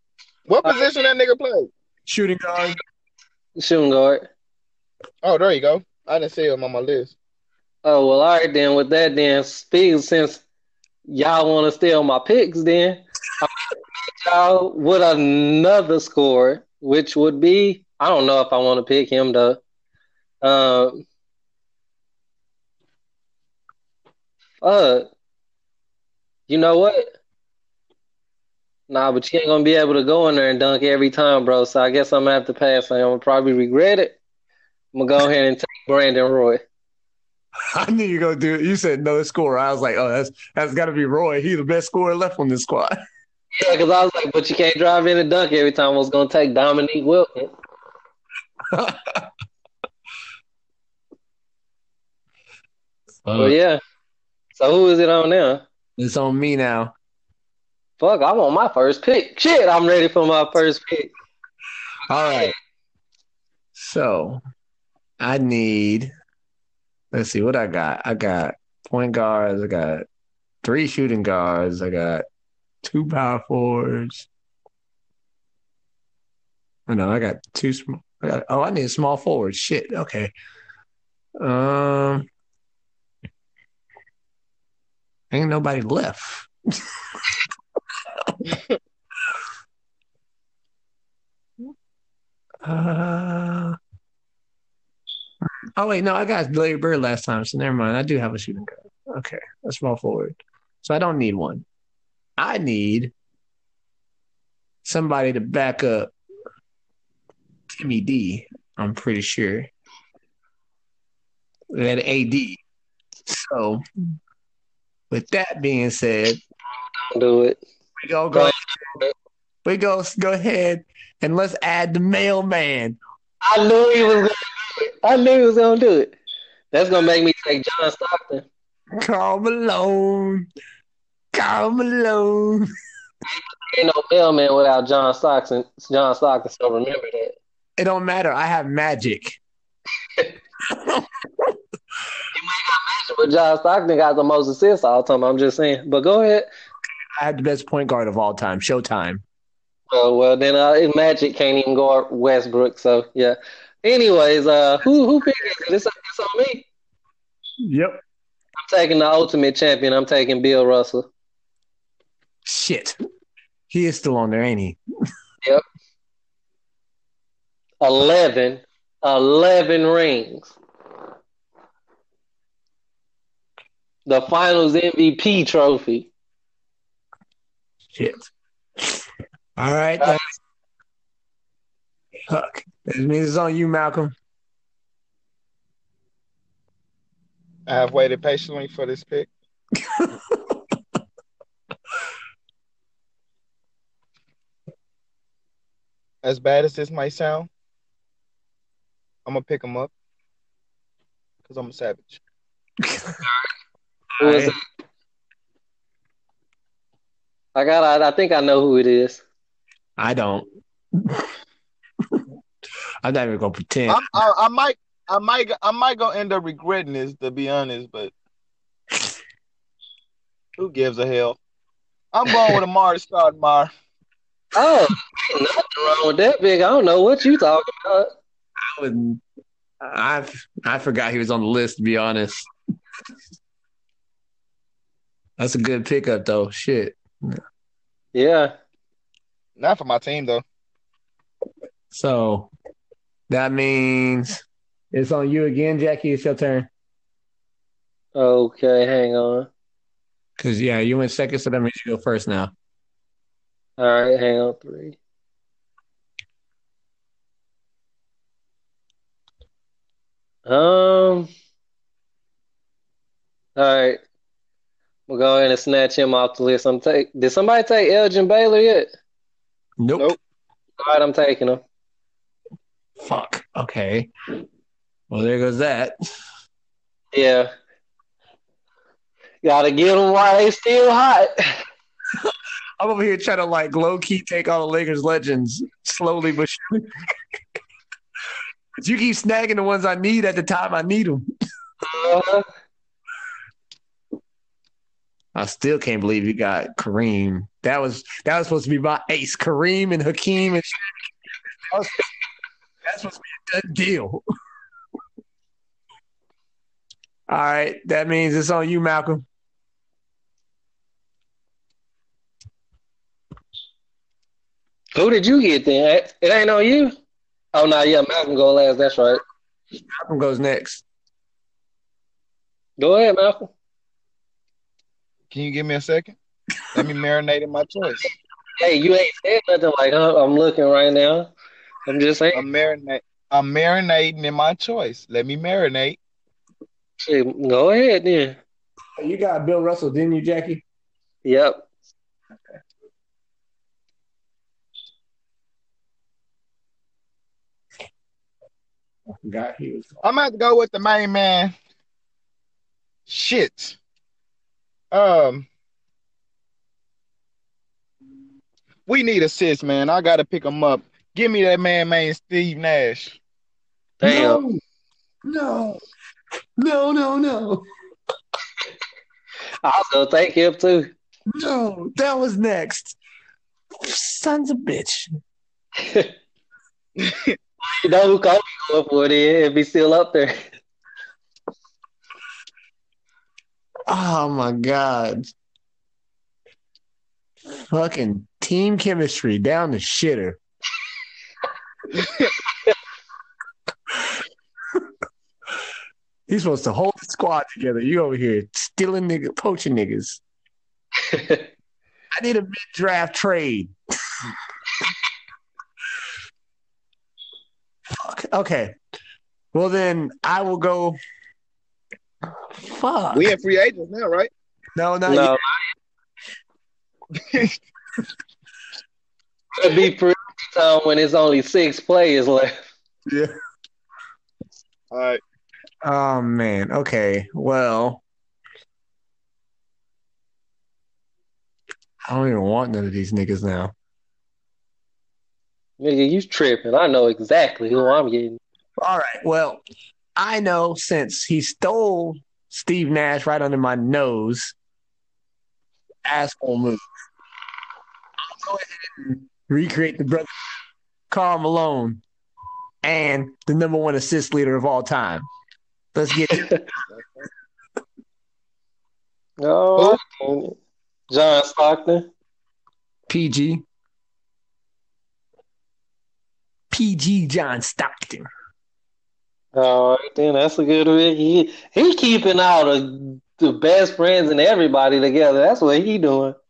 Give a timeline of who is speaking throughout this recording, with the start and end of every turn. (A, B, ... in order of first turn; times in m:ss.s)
0:00.5-0:01.7 A
0:00.6-0:00.9 B
0:02.1-0:02.8 C
0:03.6-0:04.3 B
0:05.2-0:07.2 A
0:07.8-0:10.4 B
0:11.1-0:19.6 B
0:20.4-0:21.1 B
0:24.6-0:25.1 B
0:26.5-0:27.1 B
0:28.9-0:34.2 B
0:34.9-0:36.6 B
0:37.7-0:43.0 C
0:43.6-0:47.5 B
0:48.7-0:49.3 C
0:53.2-0:53.6 C
0:53.4-0:53.8 B
0:54.6-0:55.6 B
0:56.0-0:56.9 C
0:58.0-1:01.1 B
1:02.1-1:02.5 C
1:02.1-1:02.6 B
1:03.8-1:04.4 C
1:05.2-1:06.1 C
1:07.1-1:10.0 C
1:10.6-1:12.2 C
1:12.8-1:14.3 C
1:16.9-1:20.3 C
1:21.4-1:22.3 C
1:25.3-1:26.5 C
1:28.1-1:28.4 C
1:32.6-1:33.8 C
1:35.8-1:41.6 C
1:42.4-1:43.1 C
1:44.8-1:46.1 C
1:47.7-1:49.7 C
1:51.7-1:52.6 C
1:53.3-1:53.8 C
1:55.1-1:56.4 C
1:57.0-1:57.6 B
1:58.0-1:58.6 C
1:58.3-1:59.1 B
1:59.6-2:03.0 C
2:03.4-2:06.2 B
2:06.7-2:08.5 B
2:09.0-2:10.5 C
2:11.3-2:12.7 C
2:13.3-2:17.4 B
2:17.8-2:19.4 C
2:20.7-2:21.6 C
2:22.3-2:26.5 B
2:27.2-2:29.2 C
2:29.9-2:36.7 B
2:37.6-2:38.0 C
2:38.6-2:41.1 B
2:42.4-2:43.0 C
2:43.7-2:44.8 C
2:47.8-2:50.6 B
2:54.1-2:56.1 B
2:57.9-2:58.3 C
2:59.6-3:00.2 C
3:00.0-3:00.3 B
3:02.3-3:04.1 C
3:07.7-3:09.3 A
3:09.8-3:10.6 C
3:16.2-3:17.5 A
3:19.3-3:19.9 A
3:21.4-3:22.2 A
3:22.8-3:23.2 C
3:24.2-3:24.6 C
3:24.2-3:24.6 B
3:27.6-3:29.2 B
3:30.0-3:31.3 C
3:33.0-3:34.2 C
3:33.9-3:38.1 A
3:40.6-3:41.4 A
3:42.1-3:43.7 A
3:44.6-3:48.1 B
3:48.6-3:49.2 C
3:49.8-3:52.5 C
3:55.4-3:57.4 C
3:58.1-3:58.5 B
3:59.6-4:00.4 A
4:01.9-4:02.5 C
4:03.3-4:06.7 C
4:08.2-4:09.5 B
4:10.4-4:12.5 C
4:13.8-4:15.0 B
4:20.5-4:21.3 B
4:23.6-4:24.0 B
4:25.1-4:28.9 B
4:29.8-4:30.1 C
4:30.8-4:31.6 B
4:33.0-4:34.1 C
4:35.1-4:36.0 C
4:37.1-4:37.5 B
4:39.4-4:41.6 B
4:42.2-4:46.9 C
4:48.8-4:51.3 C
4:51.8-4:52.4 B
4:55.4-5:01.1 C
5:01.7-5:02.1 C
5:02.8-5:04.2 C
5:07.3-5:09.2 C
5:15.0-5:17.0 B
5:17.5-5:19.2 B
5:20.0-5:20.8 C
5:22.8-5:23.5 B
5:25.3-5:26.2 A
5:26.7-5:28.1 A
5:28.6-5:31.3 B
5:31.9-5:32.4 B
5:32.3-5:36.0 A
5:37.0-5:38.4 B
5:39.0-5:40.6 C
5:41.2-5:41.7 B
5:49.2-5:50.0 C
5:50.0-5:51.5 A
5:53.1-5:53.8 A
5:54.9-5:55.5 A
5:58.9-6:03.2 A
6:04.0-6:04.4 B
6:04.0-6:04.6 C
6:05.2-6:05.8 C
6:06.6-6:07.6 C
6:09.6-6:10.9 B
6:11.4-6:13.0 C
6:13.8-6:15.1 C
6:15.8-6:16.1 B
6:17.0-6:17.4 A
6:17.6-6:20.4 B
6:23.9-6:25.3 C
6:27.7-6:30.4 C
6:32.0-6:32.3 A
6:36.3-6:40.2 C
6:41.0-6:41.4 B
6:42.1-6:43.7 C
6:47.9-6:48.8 C
6:49.5-6:51.0 C
6:52.6-6:53.3 C
6:53.1-6:54.3 A
6:54.8-6:55.4 C
6:55.1-6:55.6 B
6:57.2-6:57.6 A
6:59.6-7:02.7 B
7:04.9-7:05.2 A
7:05.8-7:08.0 C
7:12.0-7:13.7 C
7:15.8-7:18.4 B
7:18.8-7:19.6 C
7:20.2-7:24.6 C
7:26.1-7:26.8 C
7:28.3-7:30.3 C
7:31.1-7:32.0 C
7:32.8-7:35.3 C
7:35.9-7:36.5 C
7:36.3-7:36.6 B
7:36.9-7:37.3 A
7:39.4-7:40.6 B
7:41.1-7:42.1 B
7:43.1-7:43.6 C
7:46.7-7:48.3 C
7:49.6-7:56.4 B